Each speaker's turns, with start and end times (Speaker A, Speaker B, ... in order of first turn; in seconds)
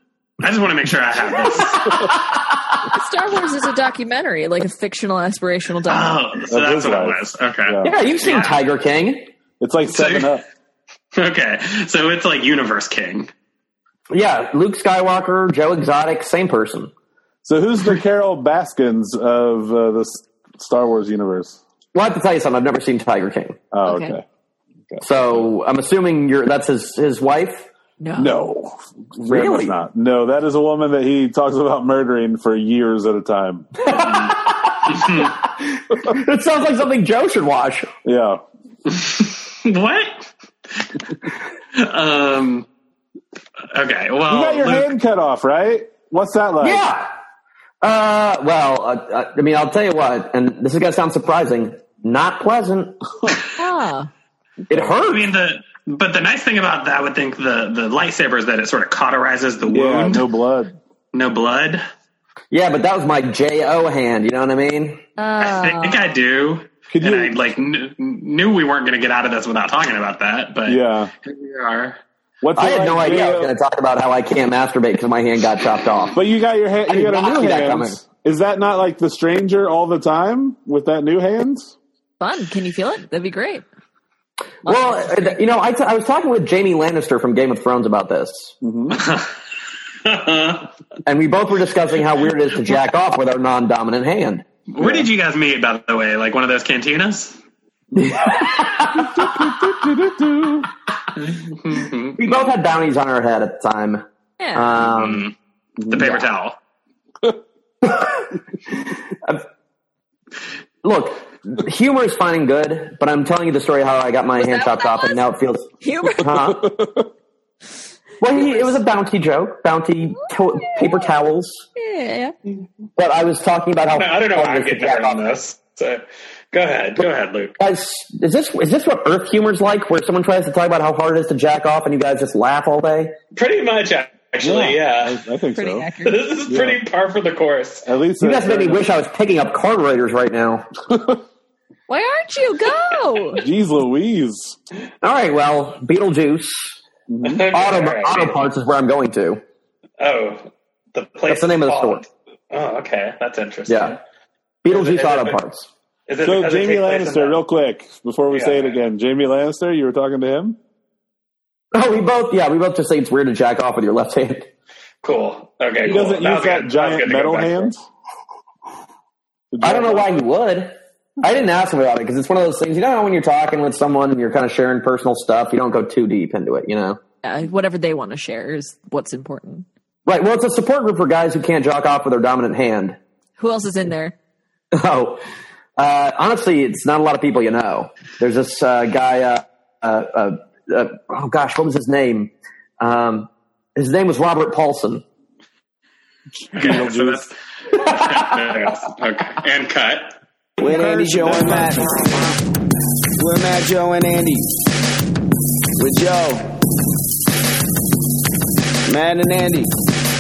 Speaker A: 0.4-2.0, 5.9-8.6, 9.9-10.4, 11.1-13.3, 33.9-34.3, 34.9-35.4, 38.9-41.0, 41.8-42.7, 43.7-44.9, 55.0-60.3, 61.1-61.8, 65.4-72.0, 88.9-89.3, 90.0-90.7, 94.7-97.4, 101.3-102.2, 104.9-105.3, 105.9-106.6, 123.9-127.6, 133.3-135.2, 136.0-137.9, 147.2-148.4, 150.0-154.0, 154.7-155.4, 156.1-157.4, 158.3-158.8, 165.0-167.7, 196.6-200.2
Speaker B: 2.9-6.2, 23.9-24.2, 28.0-28.4, 53.6-54.1, 65.2-66.1, 82.2-83.7, 84.6-85.4, 104.4-104.8, 114.3-115.2, 115.8-116.3, 118.3-118.8, 120.1-121.1, 121.8-122.3, 135.5-136.3, 141.9-143.4, 177.2-179.7, 183.4-184.2
Speaker C: 6.5-8.0, 9.6-10.4, 17.4-21.6, 23.7-24.2, 24.9-25.4, 28.2-33.9, 38.0-38.4, 44.3-46.9, 59.7-60.8, 66.9-67.4, 70.7-71.1, 72.4-73.5, 76.1-81.7, 88.6-89.0, 94.8-95.1, 99.1-100.7, 105.8-106.1, 116.6-117.0, 134.4-135.9, 136.5-136.8, 137.8-138.9, 143.4-144.6, 147.1-147.4, 156.2-160.6, 165.8-167.8, 169.5-170.2, 196.5-197.2, 200.6-201.9
Speaker D: 7.8-9.3, 14.1-16.9, 21.9-23.6, 25.0-27.7, 29.3-29.8, 33.8-37.9, 46.6-47.1, 47.8-53.3, 54.7-55.3, 62.5-65.0, 72.6-76.2, 76.9-78.0, 84.7-88.5, 91.1-94.5, 98.0-99.5, 102.2-104.0, 104.5-105.3, 106.0-106.2, 107.8-108.3, 108.8-109.4, 110.8-116.7, 118.2-121.7, 123.0-125.2, 127.6-133.1, 138.2-140.7, 145.0-146.8, 147.5-149.4, 151.3-152.0, 153.7-154.0, 154.6-155.7, 161.7-164.5, 169.6-177.0, 180.1-183.0, 184.8-185.2, 185.8-195.0, 197.7-198.0
Speaker E: 200.6-201.9, 203.2-204.5, 205.8-206.5, 208.9-209.7